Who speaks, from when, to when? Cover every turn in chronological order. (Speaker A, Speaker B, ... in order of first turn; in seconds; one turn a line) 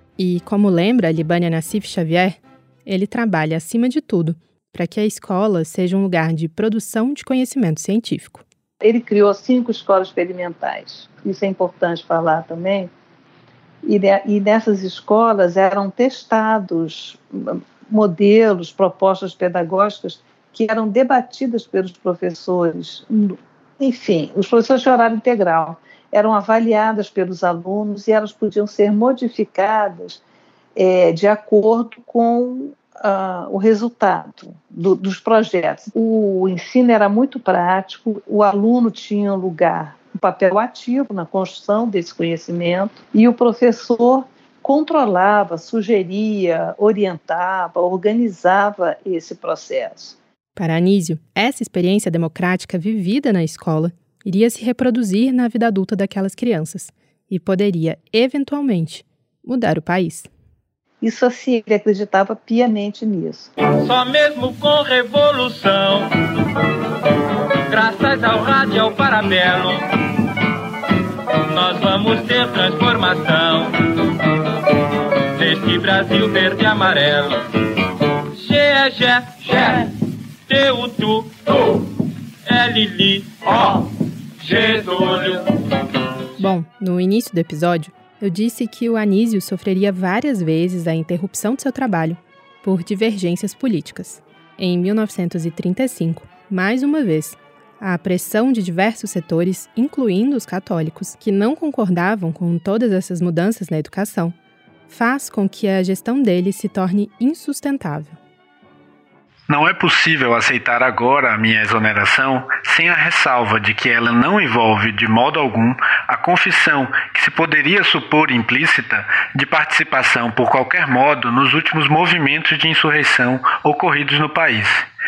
Speaker A: 0.2-8.4
Speaker B: 8.8-12.9
Speaker B: 13.9-30.2
Speaker B: 30.8-50.2
Speaker A: 50.6-60.3
Speaker B: 61.0-63.5
Speaker C: 63.7-66.1
Speaker C: 67.7-69.9
Speaker C: 71.5-73.9
Speaker C: 75.3-77.5
Speaker C: 78.3-80.0
Speaker C: 80.5-81.9
Speaker C: 82.5-85.5
Speaker A: 86.4-104.3
Speaker A: 104.9-108.2
Speaker D: 109.5-124.9